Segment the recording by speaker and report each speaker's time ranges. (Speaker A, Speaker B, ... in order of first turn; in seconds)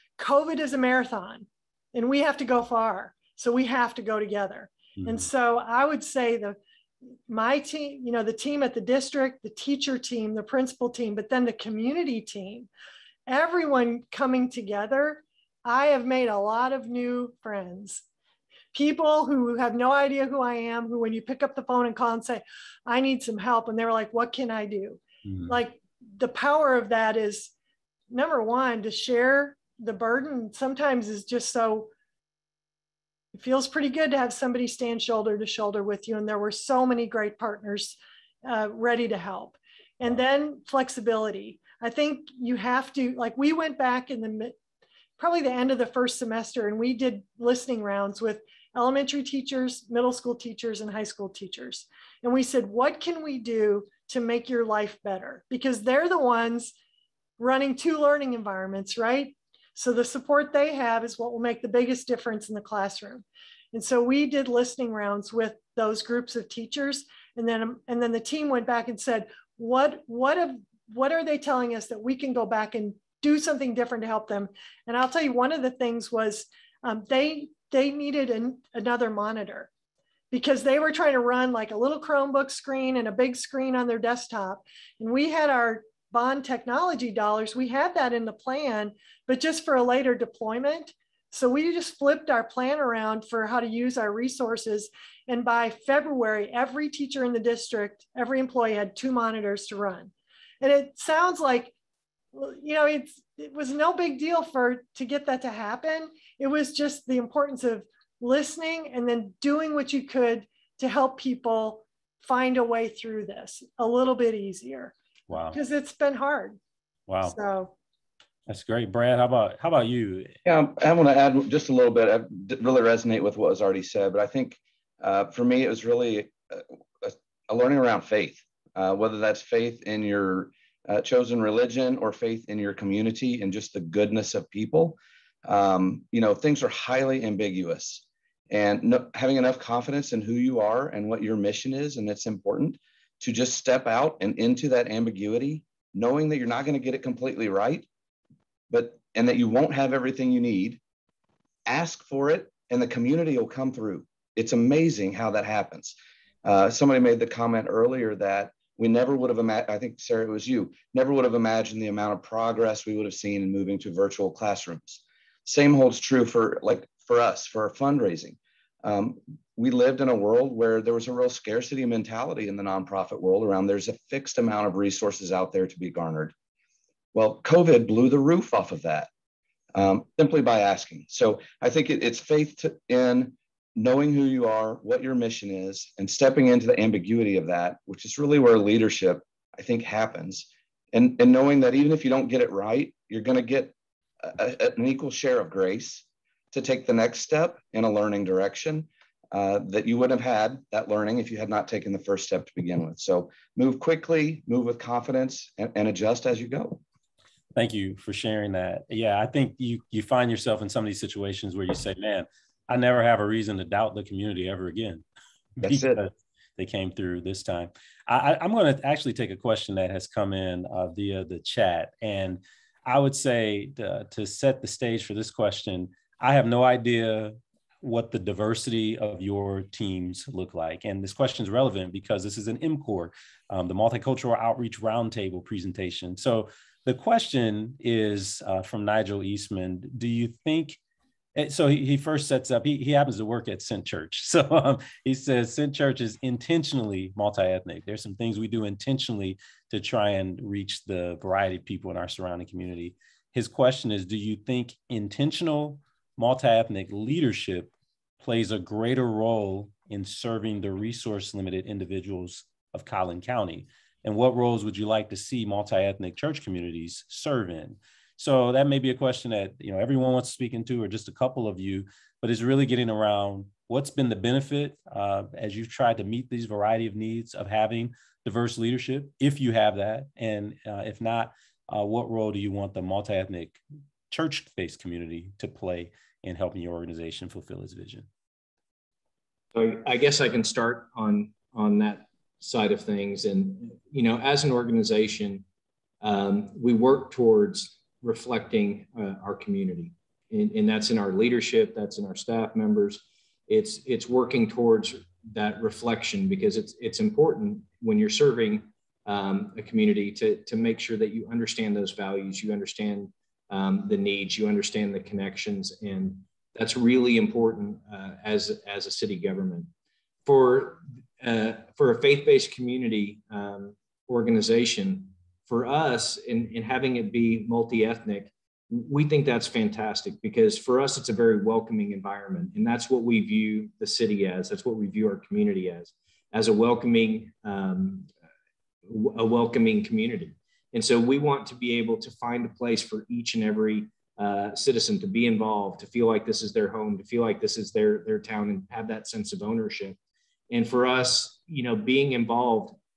Speaker A: 0.2-6.6, 7.3-12.7, 13.3-18.0, 18.7-27.5, 28.1-31.9, 33.3-44.5, 45.2-56.7, 57.4-79.7, 80.3-101.7, 102.3-114.9, 115.5-116.6, 117.2-117.7
Speaker B: 5.0-5.3, 25.3-25.6, 115.3-115.6, 117.1-117.3, 118.5-120.3, 207.5-215.0, 215.6-240.8, 241.3-288.1
Speaker C: 120.5-147.9, 148.7-150.8, 151.7-176.3, 177.1-179.1, 179.7-206.8, 215.6-216.0
Speaker D: 289.5-295.4, 296.0-319.7, 320.2-338.1, 338.9-350.0, 350.5-352.8